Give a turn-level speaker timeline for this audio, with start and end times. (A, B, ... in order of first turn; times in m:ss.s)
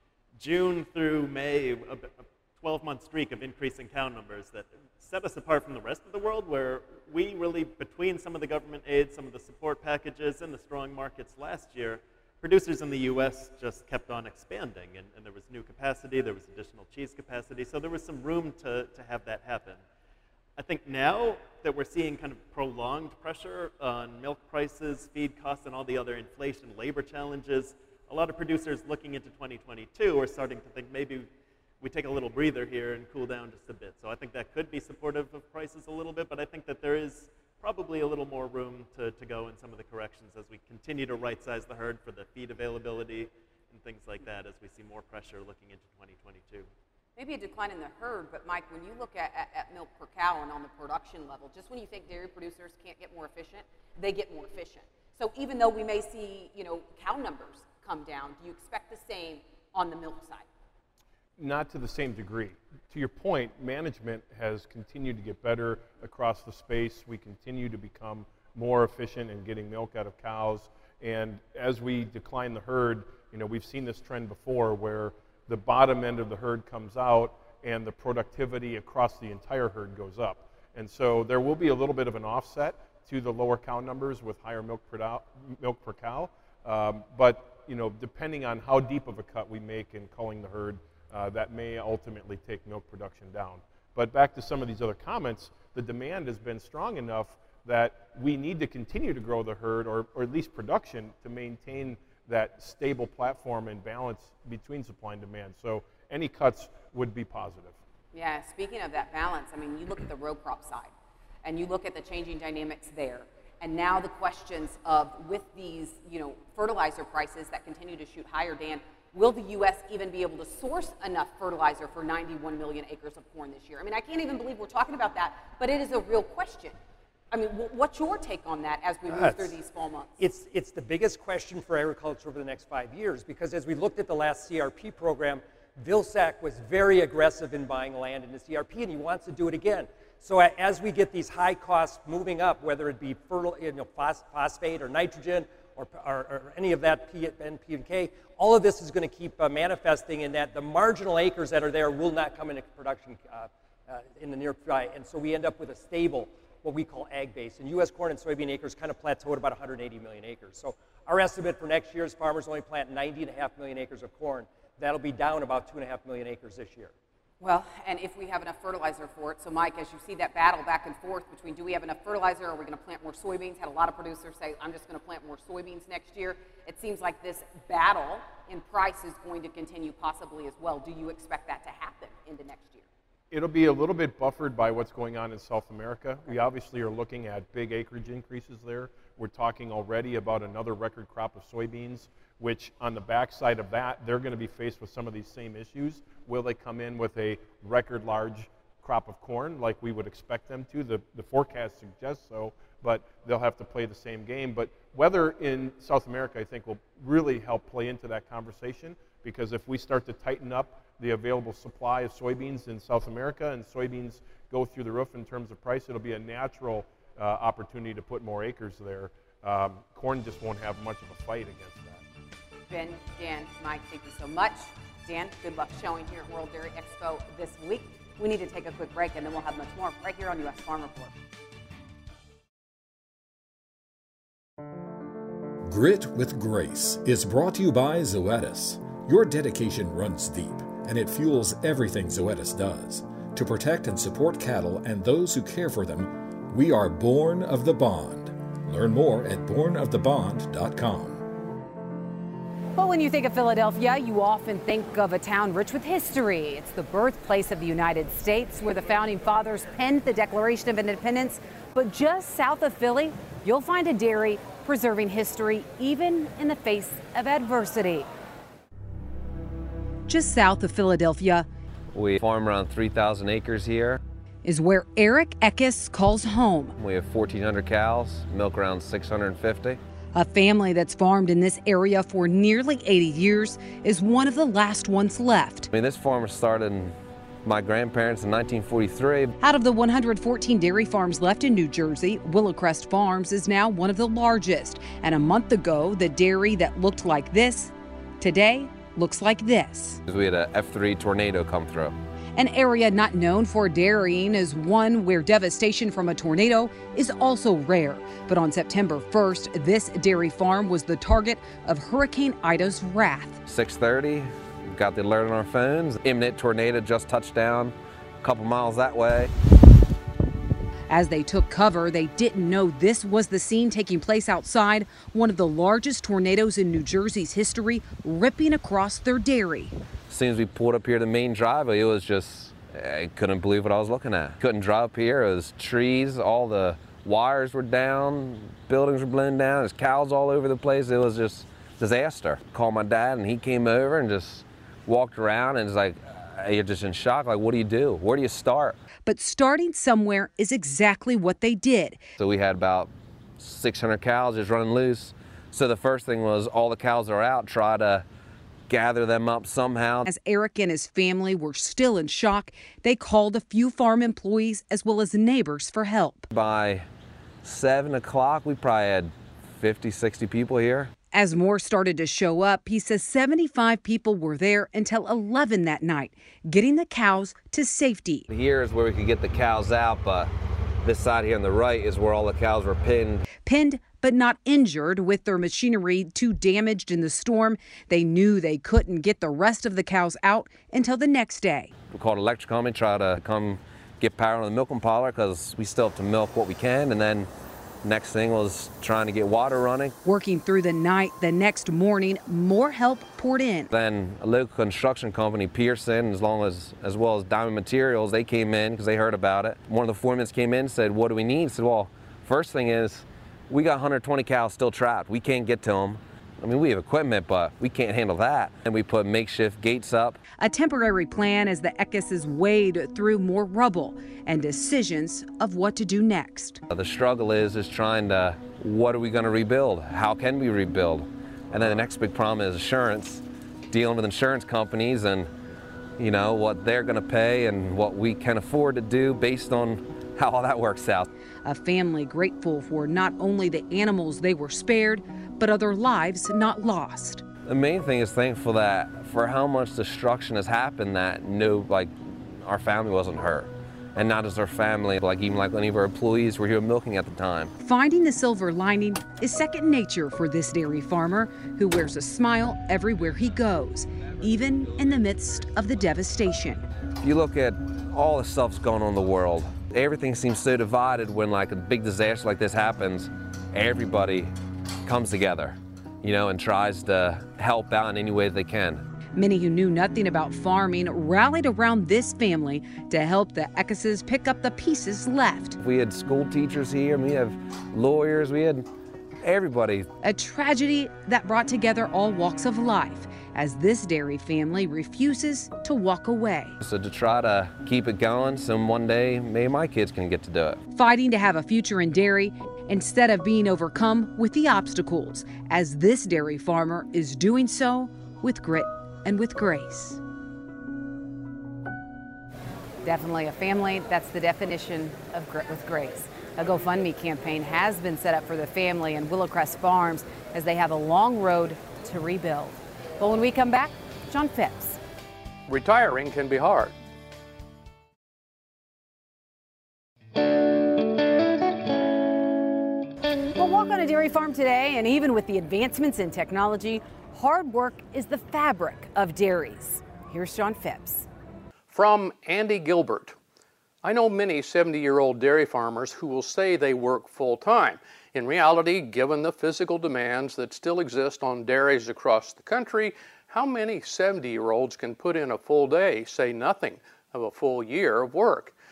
0:00.4-0:19.8 A
0:20.6-0:31.3 A
0:31.8-0:46.7 A
0:47.2-1:00.4 B
1:01.4-1:47.8 C
1:48.1-1:50.9 B
1:51.4-2:06.8 B
2:07.3-2:10.1 B
2:10.2-2:46.9 D
2:47.4-3:02.9 B
3:03.3-3:42.0 C
3:42.7-3:51.1 B
3:55.6-4:11.2 E
4:12.8-4:28.1 F
4:30.1-4:31.5 F
4:31.9-4:34.0 G
4:34.4-4:36.8 F
4:36.8-4:39.8 G
4:40.1-4:45.7 F
4:45.7-4:49.4 G
4:49.4-5:00.0 F
5:00.1-5:01.9 G
5:02.4-5:13.4 F
5:13.4-5:19.3 G
5:20.9-5:29.8 F
5:30.1-5:48.8 G
5:49.0-5:52.1 F
5:52.2-5:58.1 G
5:58.7-6:00.1 G
6:00.0-6:06.3 F
6:06.3-6:06.9 G
6:07.4-6:10.9 G
6:11.1-6:18.3 F
6:18.3-6:20.3 G
6:20.8-6:23.3 G
6:23.4-6:31.7 F
6:31.9-6:37.3 G
6:37.8-6:40.0 G
6:40.0-6:43.7 F
6:43.7-7:00.2 G
7:00.4-7:06.6 F
7:06.7-7:15.3 G
7:16.0-7:21.1 G
7:21.4-7:27.2 F
7:27.4-7:37.5 G
7:37.6-7:46.7 F
7:47.0-7:54.3 G
7:54.8-7:58.8 G
7:59.2-8:05.6 F
8:05.6-8:08.7 G
8:09.2-8:09.9 G
8:10.0-8:16.6 F
8:16.6-8:20.6 G
8:20.7-8:30.0 F
8:32.8-8:44.8 F
8:45.5-8:46.7 H
8:53.4-9:01.0 F
9:01.7-9:03.1 H
9:03.8-9:18.5 H